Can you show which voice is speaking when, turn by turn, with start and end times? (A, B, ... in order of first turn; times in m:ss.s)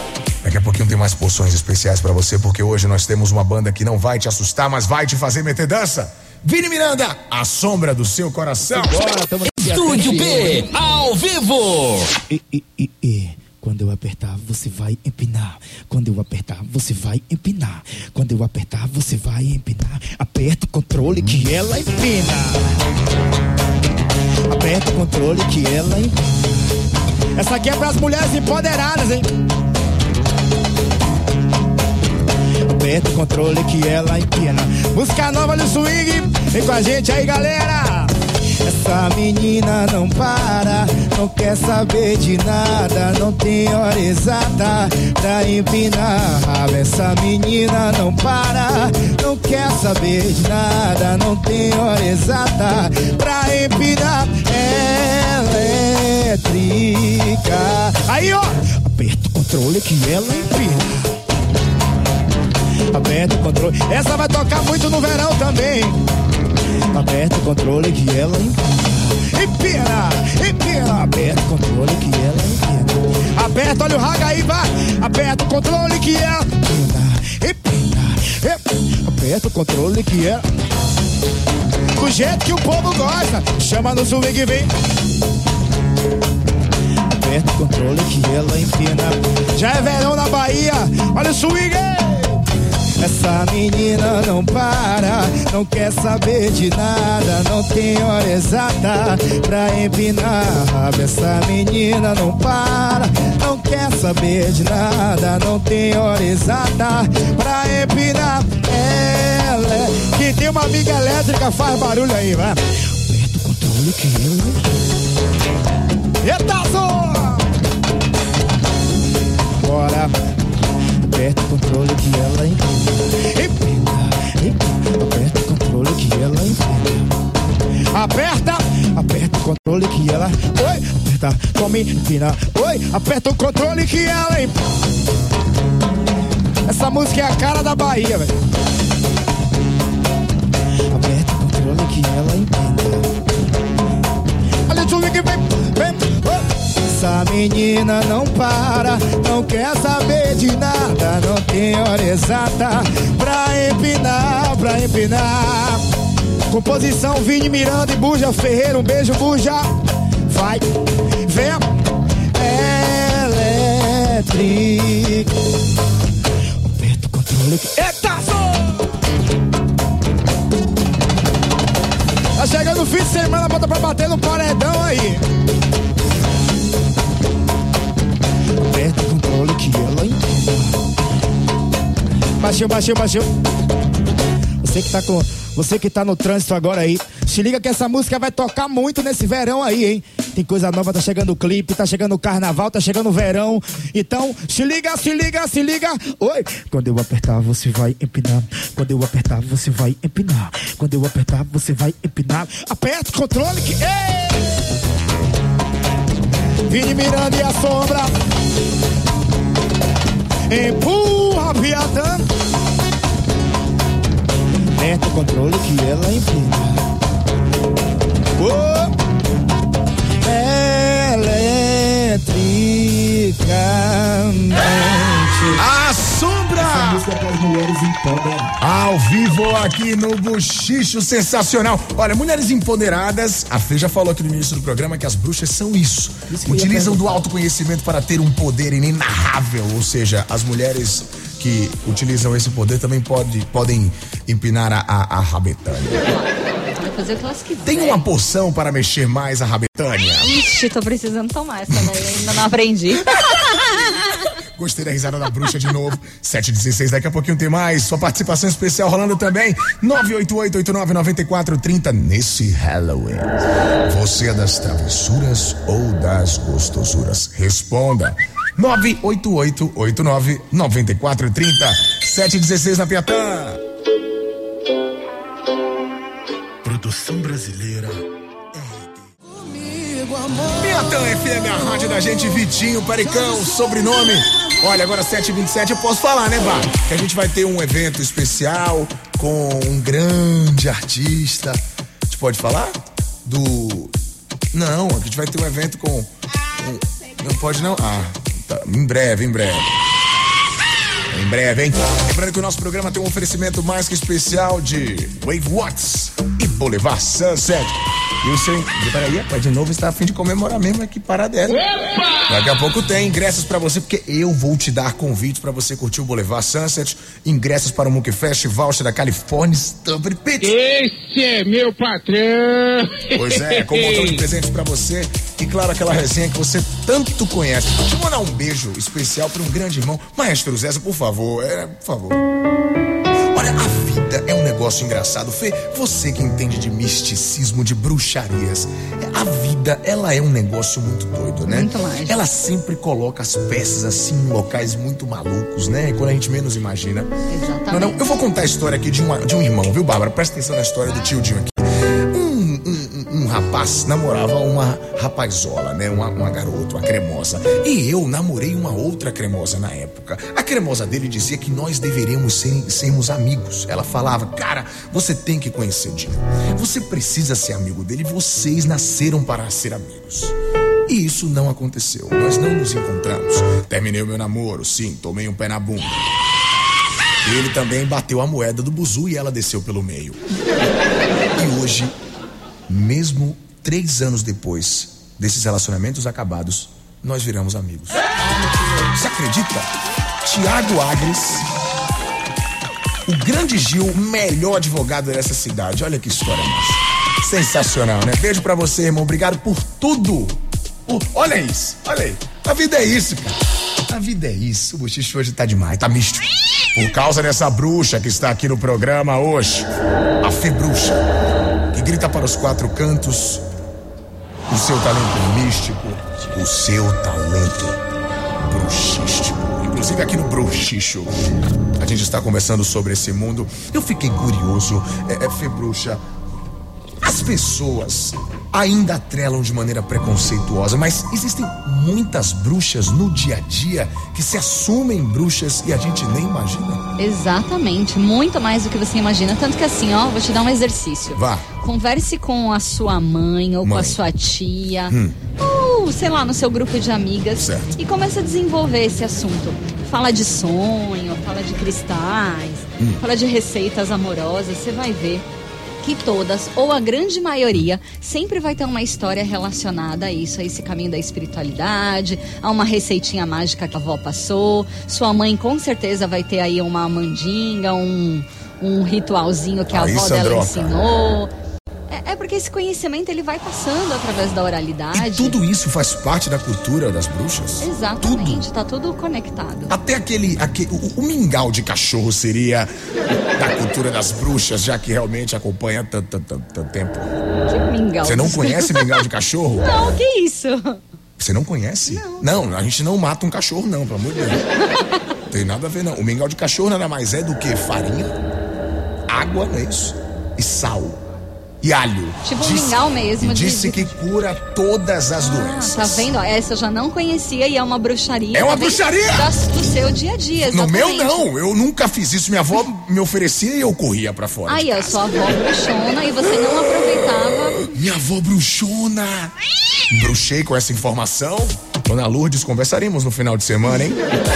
0:00.4-0:09.0 A
0:08.7-0:10.7 B
0:09.6-0:12.1 C
0:12.3-0:22.8 B
0:24.5-0:26.7 B
0:27.4-0:29.3 B
0:32.6-1:01.1 B
1:02.9-1:06.0 B
1:06.9-1:20.5 B
1:22.0-1:24.7 B
1:27.1-1:32.4 B
1:33.0-1:54.8 B
1:56.2-1:57.5 B
1:59.6-2:00.2 B
2:01.0-2:07.1 B
2:07.9-2:14.6 B
2:16.7-2:18.4 B
2:20.9-2:23.1 B
2:24.7-2:35.9 B
2:36.5-2:39.7 B
2:40.3-2:41.7 B
2:42.3-2:45.4 B
2:46.6-2:48.9 B
2:52.4-2:55.3 B
2:58.6-3:00.8 B
3:02.4-3:03.4 B
3:04.6-3:24.6 B
3:26.7-3:28.1 B
3:30.5-3:32.3 B
3:34.8-3:36.8 B
3:38.4-3:39.0 B
3:40.2-3:45.7 B
3:45.6-3:47.0 A
3:46.6-3:48.6 B
3:48.6-4:06.0 A
3:56.3-3:57.3 B
4:06.0-4:08.0 D
4:07.6-4:10.3 A
4:10.2-4:14.2 D
4:11.7-4:12.2 A
4:13.2-4:14.0 A
4:14.6-4:23.3 A
4:23.9-4:33.6 A
4:36.6-4:38.0 A
4:40.0-4:40.3 B
4:40.4-4:53.9 A
4:54.5-4:59.7 A
5:01.1-5:11.6 A
5:11.8-5:12.2 E
5:12.3-5:20.5 A
5:20.4-5:24.2 E
5:23.1-5:32.2 A
5:33.3-5:47.1 A
5:41.5-5:42.2 D
5:47.3-5:48.0 D
5:47.7-6:10.4 A
6:10.9-6:16.0 A
6:17.2-6:20.2 A
6:21.4-6:22.0 A
6:22.7-6:28.0 A
6:28.3-6:28.9 D
6:28.9-6:29.7 A
6:30.2-6:31.5 A
6:33.1-6:43.4 A
6:43.9-6:49.7 A
6:50.2-6:51.0 A
6:51.7-6:53.4 A
6:54.5-6:57.8 A
6:58.4-7:01.1 A
7:01.8-7:06.0 A
7:07.0-7:16.8 A
7:17.0-7:35.3 D
7:21.2-7:21.5 A
7:23.6-7:24.0 A
7:24.9-7:25.2 A
7:27.4-7:27.7 A
7:35.8-7:51.3 D
7:49.7-7:50.8 A
7:51.9-7:55.4 D
7:54.9-7:58.4 A
7:57.6-7:59.8 D
7:59.7-8:02.7 A
8:03.4-8:07.1 A
8:07.5-8:09.0 D
8:08.0-8:09.8 A
8:09.6-8:10.8 D
8:11.2-8:14.4 A
8:11.9-8:12.4 D
8:15.3-8:18.2 A
8:19.1-8:21.0 A
8:21.6-8:26.1 A
8:22.2-8:23.9 D
8:25.2-8:31.3 D
8:28.3-8:29.3 A
8:30.5-8:35.0 A
8:34.5-8:37.7 D
8:37.7-8:39.3 A
8:39.9-8:44.0 A